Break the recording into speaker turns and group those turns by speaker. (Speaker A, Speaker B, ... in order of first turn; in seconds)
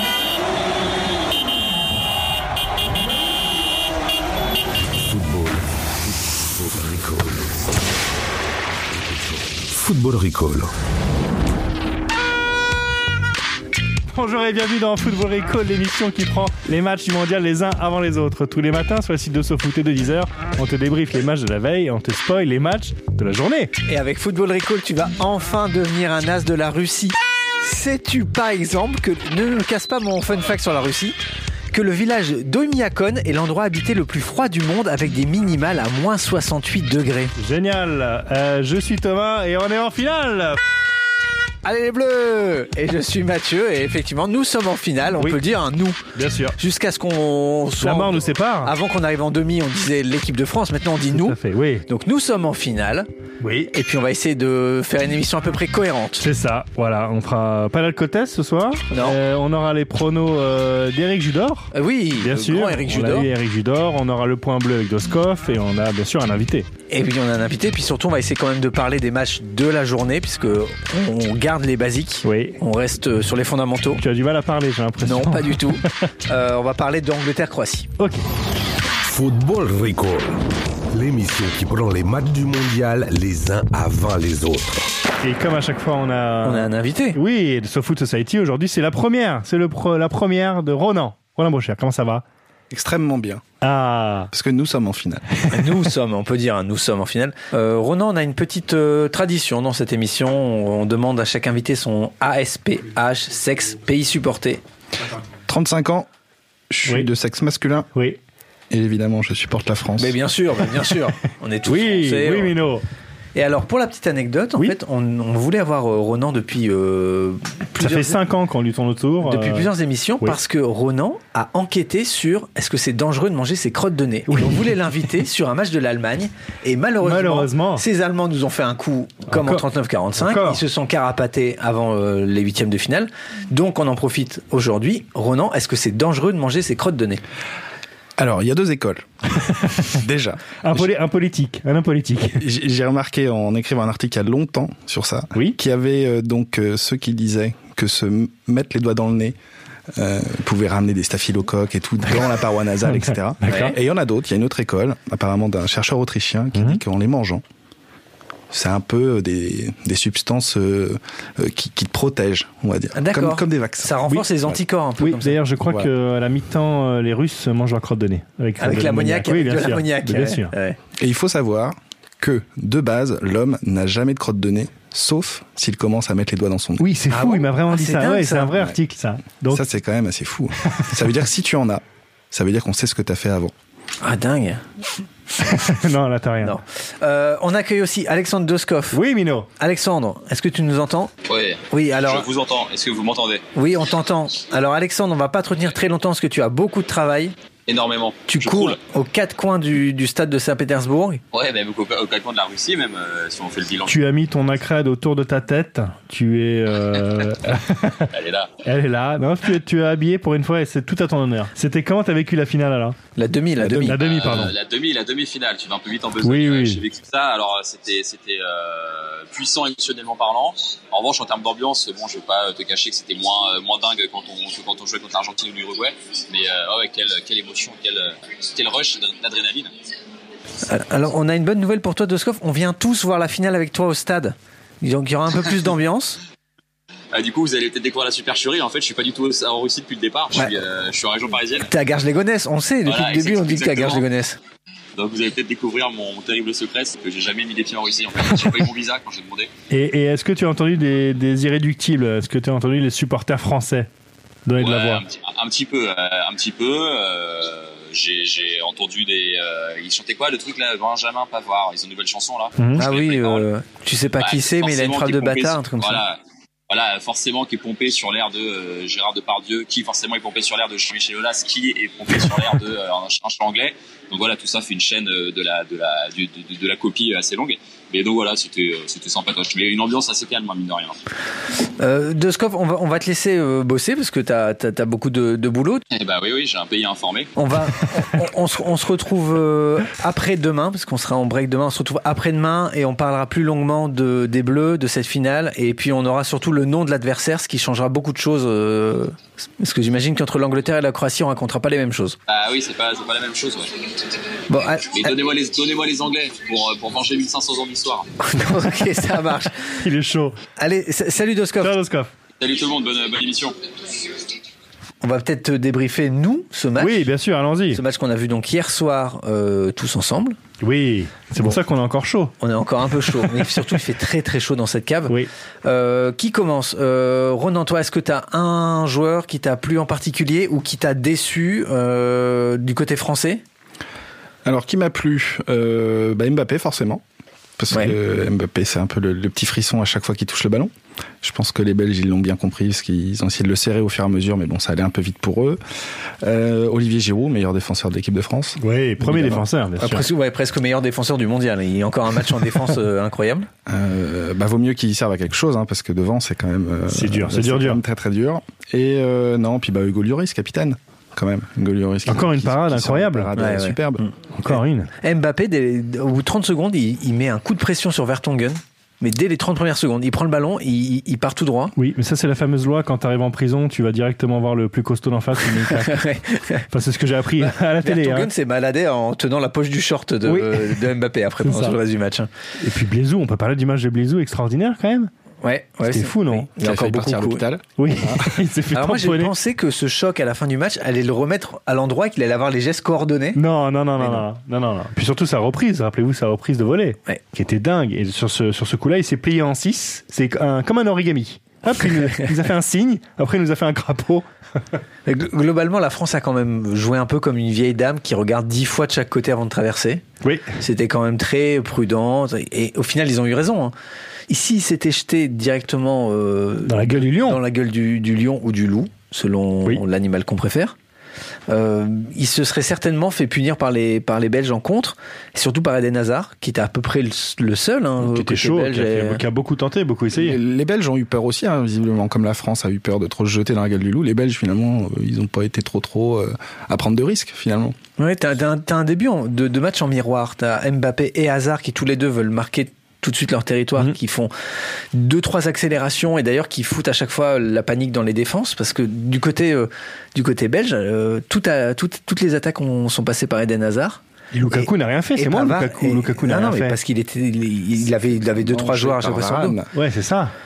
Speaker A: 5.0-7.7, 8.9-10.7, 79.0-80.4, 80.9-84.8
Speaker B: 14.1-23.7, 37.4-40.6, 46.1-46.6, 47.8-48.7, 51.1-51.8, 53.4-53.7, 56.2-66.7, 72.2-72.6, 74.0-75.9, 85.2-92.2, 93.6-94.3, 111.7-112.8, 117.8-120.4, 124.3-124.7, 127.0-127.8, 129.3-129.6, 130.2-130.6, 140.6-142.4, 152.9-153.7, 156.5-156.8, 165.0-170.5, 176.8-179.6, 185.4-186.5, 188.9-189.5, 203.8-208.1, 208.6-213.0, 213.6-214.6, 216.2-216.8, 249.7-253.9, 254.4-255.0, 262.6-262.8, 309.8-310.4, 311.6-312.1, 316.8-317.8, 320.6-322.3, 348.6-350.1, 356.9-357.8, 362.1-363.3, 364.3-364.9, 371.8-376.1, 376.7-378.3, 380.2-380.9, 381.4-381.8, 382.6-385.1, 385.8-386.5, 387.8-389.3, 393.4-404.2, 410.2-410.5, 416.6-417.4, 428.0-430.4, 454.3-456.8, 459.7-460.3
Speaker C: 23.9-31.2, 31.7-37.3, 41.6-46.0, 46.6-53.1, 53.7-56.2, 58.9-59.2, 61.7-63.3, 66.9-74.0, 75.0-77.9, 86.4-87.2, 95.5-104.6, 110.0-112.5, 113.3-118.2, 119.2-137.2, 153.5-153.7, 162.9-165.4, 168.6-170.8, 177.1-178.5, 184.0-184.6, 186.4-189.0, 189.6-191.1, 191.7-192.2, 193.5-197.3, 198.3-201.2, 213.2-214.0, 230.7-236.2, 241.6-244.4, 262.8-266.0, 281.8-285.8, 287.4-302.2, 304.5-305.1, 308.2-309.8, 310.6-311.7, 315.0-317.1, 317.7-320.4, 322.4-333.4, 349.8-353.5, 363.4-371.7, 375.6-376.6, 377.4-382.3, 385.4-387.4, 388.7-393.4, 394.0-394.2, 401.8-402.2, 405.1-410.0, 410.6-413.7, 414.3-420.7, 421.5-429.2, 438.0-444.3, 444.9-459.6
Speaker D: 92.7-93.4, 94.3-95.2, 105.5-106.1, 106.7-107.9, 108.7-110.2, 138.2-140.9, 142.4-149.3, 149.9-157.4, 158.5-164.0, 171.0-176.9, 179.5-183.5, 334.4-337.0, 337.6-340.7, 341.2-345.6, 346.2-349.4, 353.7-364.0, 386.6-388.4, 430.1-437.8, 458.4-459.7
Speaker E: 191.3-193.4, 197.7-198.8, 201.3-204.0, 208.1-208.5, 213.9-229.7, 237.1-241.7, 242.8-244.1, 244.9-249.5, 254.6-263.4, 264.2-281.0, 285.9-287.3, 302.3-303.7, 304.9-308.1, 312.4-313.6